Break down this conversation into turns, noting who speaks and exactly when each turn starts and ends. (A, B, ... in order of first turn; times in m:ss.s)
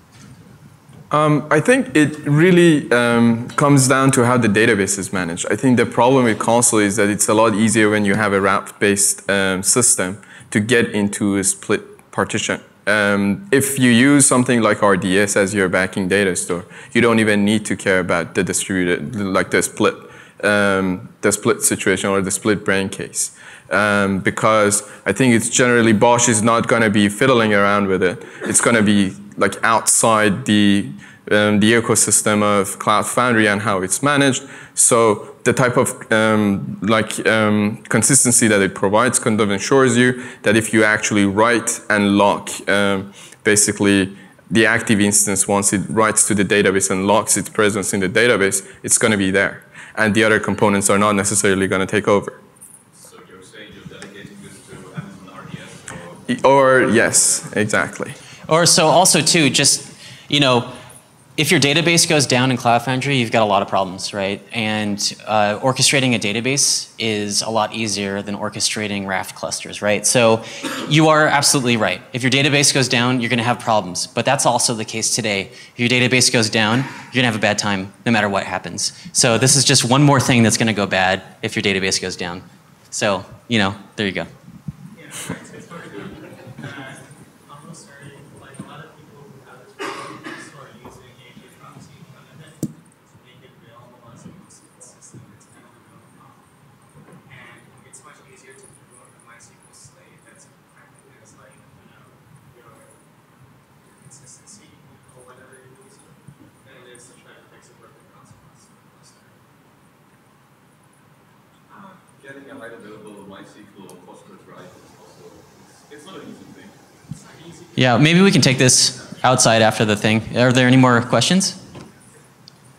0:01.1-0:52.4 A
0:52.9-0:56.4 B
0:56.3-0:58.2 A
0:58.5-1:00.8 C
1:01.4-1:24.3 C
1:24.9-1:36.4 D
1:37.2-1:43.0 D
1:43.8-1:49.4 D
1:51.7-1:52.0 D
1:52.2-1:56.8 B
1:57.1-1:57.9 D
1:57.8-2:01.6 C